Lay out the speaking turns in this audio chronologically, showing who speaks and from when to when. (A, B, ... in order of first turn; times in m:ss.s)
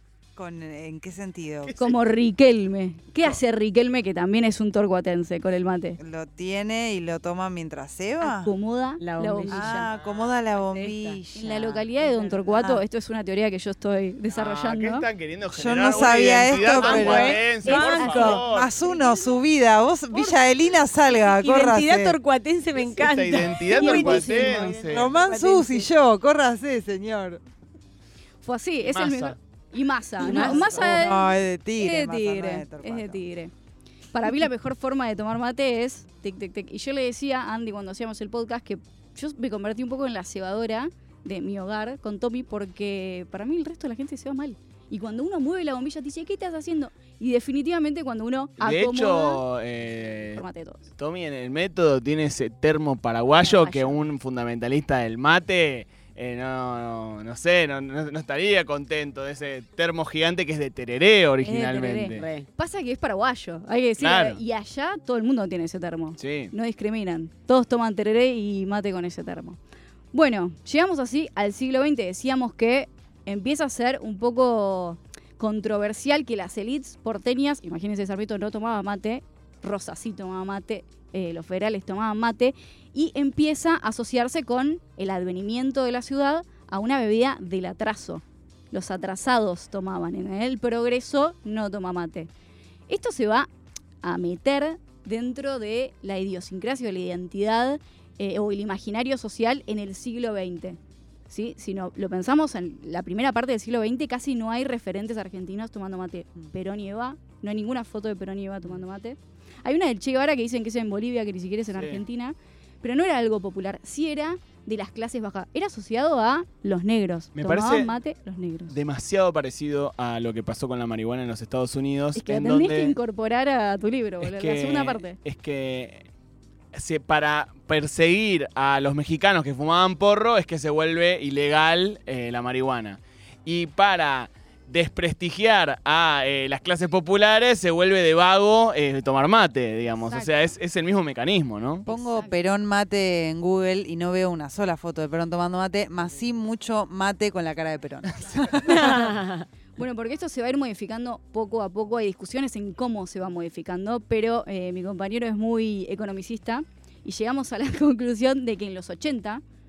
0:00.4-0:01.7 A
0:01.6-0:02.0 B
0:01.8-0:06.0 C
0:06.0-0:08.5 A
0:08.2-0:09.9 C
0:09.0-0:09.7 D
0:09.5-0:12.8 A
0:09.8-0:10.6 B
0:10.8-0:15.1 C
0:10.8-0:11.1 D
0:14.3-0:18.7 B
0:15.5-0:22.2 A
0:16.8-0:19.3 C
0:16.8-0:18.4 D
0:21.2-0:24.4 D
0:22.8-0:25.2 B
0:23.6-0:24.8 C
0:23.8-0:27.4 A
0:25.2-0:25.9 D
0:28.4-0:33.5 C
0:28.8-0:29.4 B
0:30.2-0:33.2 A
0:30.2-0:30.8 D
0:34.1-0:49.4 C
0:48.6-0:50.4 B
0:50.3-0:50.9 C
0:51.0-1:02.3 B
0:53.3-0:54.0 C
1:01.4-1:09.6 C
1:02.2-1:02.5 D
1:04.0-1:04.4 B
1:06.2-1:06.5 B
1:10.1-1:32.3 C
1:32.9-1:33.5 C
1:34.0-1:40.8 C
1:41.3-1:58.8 C
1:51.7-1:52.0 B
1:57.4-1:57.9 B
1:58.7-2:03.0 B
2:02.2-2:05.2 C
2:04.2-2:06.0 B
2:06.7-2:21.9 B
2:20.0-2:20.4 C
2:21.9-2:22.4 C
2:21.9-2:29.0 A
2:28.8-2:29.4 D
2:29.8-2:39.4 C